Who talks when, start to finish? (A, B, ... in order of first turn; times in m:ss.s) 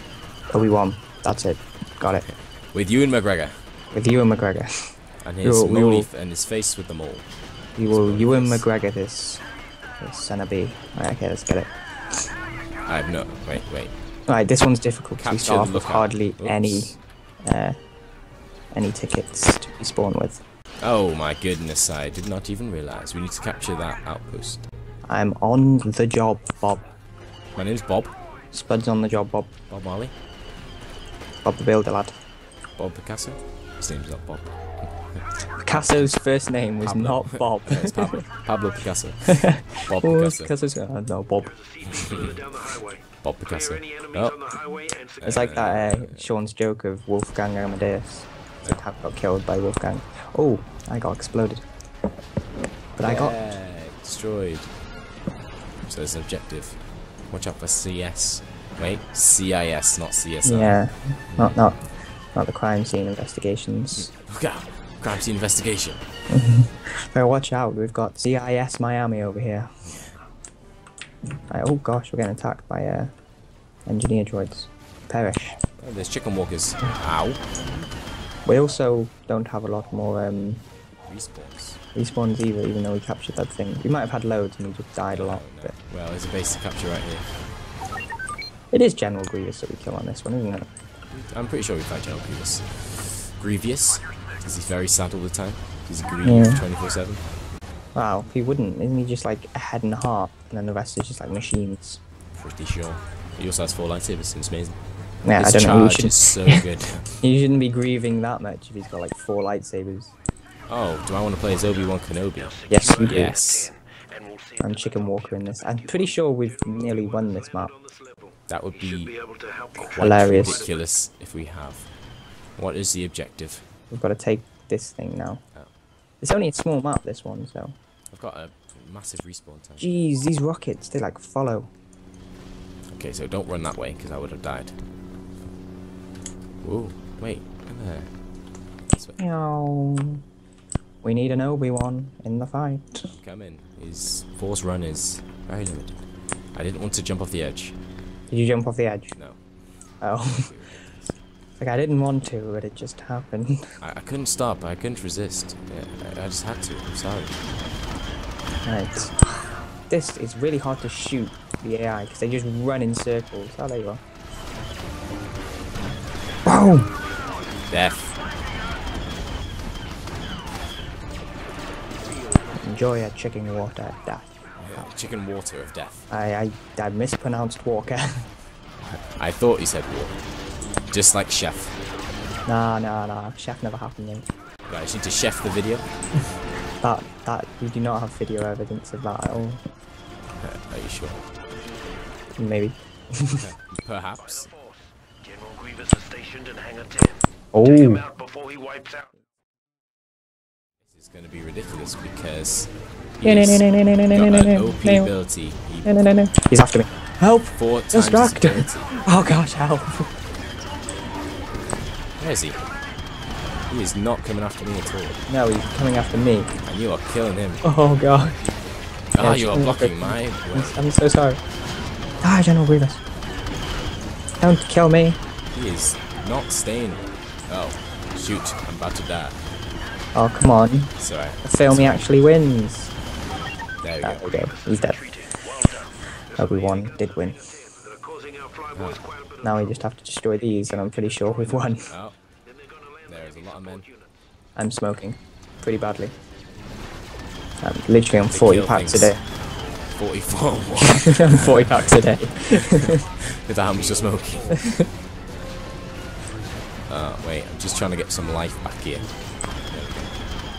0:00.5-0:02.3 A
0:02.2-0:03.6 B
0:03.9-0:04.9 A
0:05.2-0:07.3 B
0:05.4-0:06.1 A
0:07.8-0:09.4 A
0:07.9-0:08.7 B
0:10.0-0:11.8 A
0:12.8-0:13.9 B
0:14.3-0:17.8 A
0:15.2-0:17.0 B
0:18.7-0:20.4 A
0:20.8-0:24.6 B
0:25.0-0:26.8 A
0:27.5-0:28.1 B
0:28.5-0:29.5 A
0:29.7-0:30.1 B
0:31.4-0:32.1 A
0:32.8-0:34.9 B
0:35.6-0:38.2 A
0:36.8-0:40.5 B
0:39.2-0:41.6 A
0:41.8-0:42.4 B
0:43.2-0:44.4 B
0:45.2-0:46.3 B
0:45.2-0:51.6 A
0:53.0-0:53.4 A
0:53.0-0:54.7 B
0:55.9-1:00.8 B
1:00.4-1:01.8 A
1:01.3-1:01.6 B
1:02.3-1:04.1 A
1:03.9-1:06.0 B
1:06.3-1:10.0 A
1:11.5-1:13.1 A
1:13.9-1:15.6 A
1:15.8-1:17.6 B
1:18.4-1:20.6 A
1:21.1-1:21.8 B
1:21.9-1:25.8 A
1:25.1-1:27.5 B
1:28.7-1:30.7 A
1:31.1-1:37.2 B
1:36.2-1:36.6 A
1:37.9-1:42.0 A
1:42.3-1:44.8 B
1:45.2-1:46.6 A
1:45.3-1:47.2 B
1:47.2-1:50.1 A
1:50.7-1:53.7 B
1:52.7-1:53.4 A
1:53.7-1:54.6 C
1:54.6-1:57.7 A
1:58.5-1:59.2 B
1:59.2-1:59.5 C
1:59.7-2:01.9 B
1:59.9-2:00.6 A
2:02.6-2:03.6 B
2:03.9-2:05.4 A
2:06.2-2:07.8 A
2:08.1-2:09.9 B
2:09.8-2:11.7 A
2:12.9-2:14.8 B
2:16.6-2:18.2 B
2:18.9-2:19.2 B
2:19.2-2:20.2 A
2:21.0-2:23.1 A
2:23.1-2:26.0 B
2:26.5-2:27.8 B
2:28.3-2:29.2 A
2:29.1-2:29.4 B
2:30.0-2:30.5 A
2:30.2-2:31.2 B
2:31.6-2:33.6 A
2:33.8-2:37.4 B
2:38.6-2:39.3 A
2:39.9-2:44.0 A
2:46.4-2:46.9 A
2:47.7-2:48.2 B
2:52.6-2:54.9 A
2:54.6-2:56.1 B
2:56.1-2:58.3 A
2:59.2-3:00.2 B
3:00.9-3:01.8 B
3:02.4-3:04.3 A
3:04.7-3:05.9 B
3:06.8-3:09.6 A
3:10.4-3:11.2 B
3:12.4-3:13.5 A
3:13.4-3:14.5 B
3:15.3-3:17.2 C
3:17.5-3:18.1 A
3:18.1-3:19.0 C
3:20.8-3:25.9 B
3:23.2-3:25.1 A
3:25.8-3:30.1 A
3:27.5-3:29.0 B
3:32.2-3:32.6 B
3:33.7-3:35.2 B
3:35.3-3:36.5 A
3:36.6-3:37.6 B
3:37.6-3:38.4 A
3:39.1-3:40.8 B
3:39.2-3:41.4 A
3:42.2-3:43.0 A
3:44.4-3:45.2 A
3:45.5-3:49.4 B
3:50.1-3:52.9 A
3:51.0-3:52.1 B
3:53.8-3:54.5 B
3:54.0-3:55.4 A
3:54.7-3:55.7 C
3:56.3-3:57.4 A
3:57.4-3:59.4 C
3:58.7-3:59.1 B
3:59.4-4:01.9 A
4:01.9-4:02.2 B
4:02.6-4:02.8 C
4:03.1-4:03.9 B
4:04.6-4:06.1 A
4:07.6-4:09.2 A
4:08.3-4:09.2 B
4:09.9-4:11.8 B
4:10.8-4:13.0 A
4:12.8-4:14.6 B
4:14.5-4:14.9 A
4:16.9-4:19.1 B
4:19.6-4:20.1 B